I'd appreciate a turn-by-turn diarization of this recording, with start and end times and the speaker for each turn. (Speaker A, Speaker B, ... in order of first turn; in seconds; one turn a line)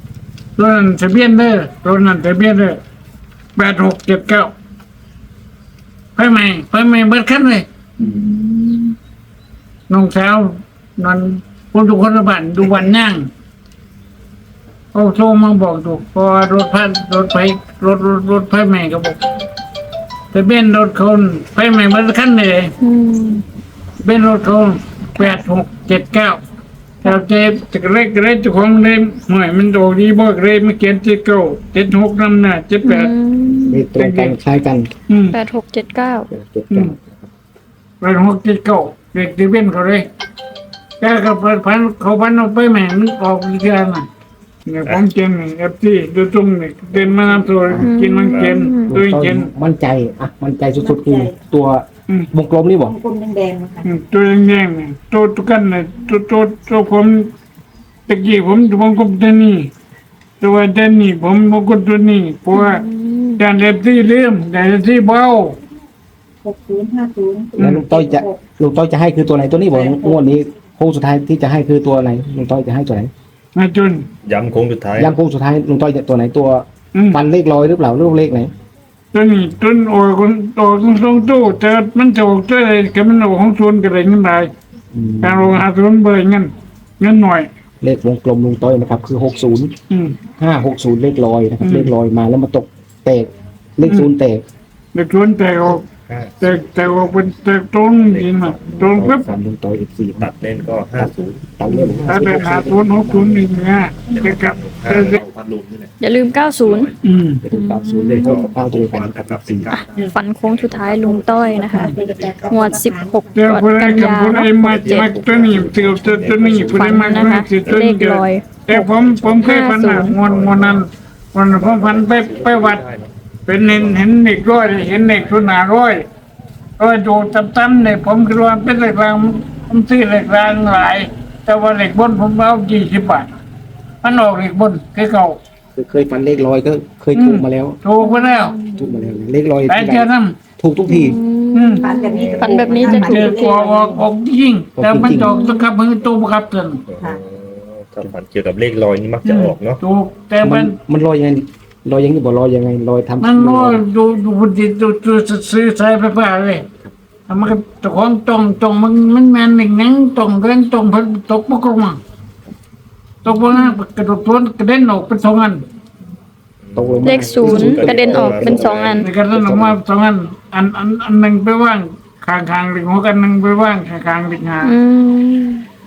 Speaker A: 0.6-2.8
Speaker A: 3.5-4.5
Speaker A: 6.2-7.7
Speaker B: 8.0-8.9
Speaker A: 9.9-13.3
Speaker A: 14.9-19.2
Speaker A: 20.3-22.7
Speaker B: 22.8-23.4
Speaker A: 24.0-26.4
Speaker A: 27.0-33.1
Speaker B: 32.8-33.9
Speaker C: 33.6-34.9
Speaker A: 33.9-34.4
Speaker A: 35.1-35.4
Speaker B: 35.3-36.3
Speaker C: 36.3-37.2
Speaker A: 36.7-37.0
Speaker A: 38.0-40.0
Speaker A: 41.0-44.0
Speaker A: 44.7-49.5
Speaker C: 47.6-47.9
Speaker B: 47.8-48.9
Speaker D: 48.3-48.6
Speaker C: 48.9-52.9
Speaker E: 50.8-51.4
Speaker E: 52.8-53.9
Speaker A: 53.8-57.3
Speaker A: 58.1-59.7
Speaker A: 60.4-62.8
Speaker B: 62.5-63.4
Speaker A: 63.4-65.6
Speaker E: 66.4-68.5
Speaker A: 67.6-67.9
Speaker C: 67.6-73.1
Speaker E: 69.7-70.2
Speaker A: 73.5-74.0
Speaker D: 74.2-75.1
Speaker C: 75.0-78.5
Speaker A: 79.1-84.5
Speaker C: 84.9-85.6
Speaker A: 85.2-86.5
Speaker A: 87.0-87.5
Speaker C: 87.8-89.7
Speaker A: 89.9-90.2
Speaker C: 90.4-94.4
Speaker A: 91.6-91.9
Speaker A: 93.8-94.1
Speaker A: 94.9-95.8
Speaker D: 96.0-97.2
Speaker A: 96.4-99.3
Speaker D: 97.8-99.4
Speaker C: 99.1-100.3
Speaker D: 100.2-101.6
Speaker C: 100.9-103.4
Speaker A: 101.7-105.2
Speaker D: 102.2-102.6
Speaker D: 104.0-105.9
Speaker B: 106.0-106.9
Speaker D: 106.6-107.0
Speaker A: 107.0-107.4
Speaker C: 107.4-109.8
Speaker B: 107.5-108.5
Speaker D: 108.2-112.7
Speaker B: 109.7-111.9
Speaker E: 111.4-113.2
Speaker B: 112.5-115.1
Speaker A: 113.3-122.8
Speaker D: 114.6-117.8
Speaker B: 116.7-120.2
Speaker D: 118.8-120.8
Speaker D: 121.5-125.6
Speaker A: 123.5-126.0
Speaker A: 126.8-133.3
Speaker A: 134.0-135.4
Speaker C: 135.8-137.8
Speaker A: 137.1-138.6
Speaker B: 138.0-139.1
Speaker C: 138.8-141.2
Speaker A: 139.7-140.4
Speaker B: 140.9-143.6
Speaker A: 141.5-141.9
Speaker E: 141.8-144.1
Speaker D: 142.2-142.8
Speaker A: 142.8-146.8
Speaker C: 144.8-145.3
Speaker B: 145.0-145.7
Speaker D: 146.9-149.8
Speaker A: 149.2-150.7
Speaker C: 150.4-153.8
Speaker A: 153.2-156.6
Speaker A: 157.3-162.0
Speaker A: 163.2-165.6
Speaker B: 163.5-163.8
Speaker D: 166.6-169.8
Speaker C: 166.8-168.7
Speaker B: 167.0-169.1
Speaker A: 169.0-174.7
Speaker B: 174.6-175.6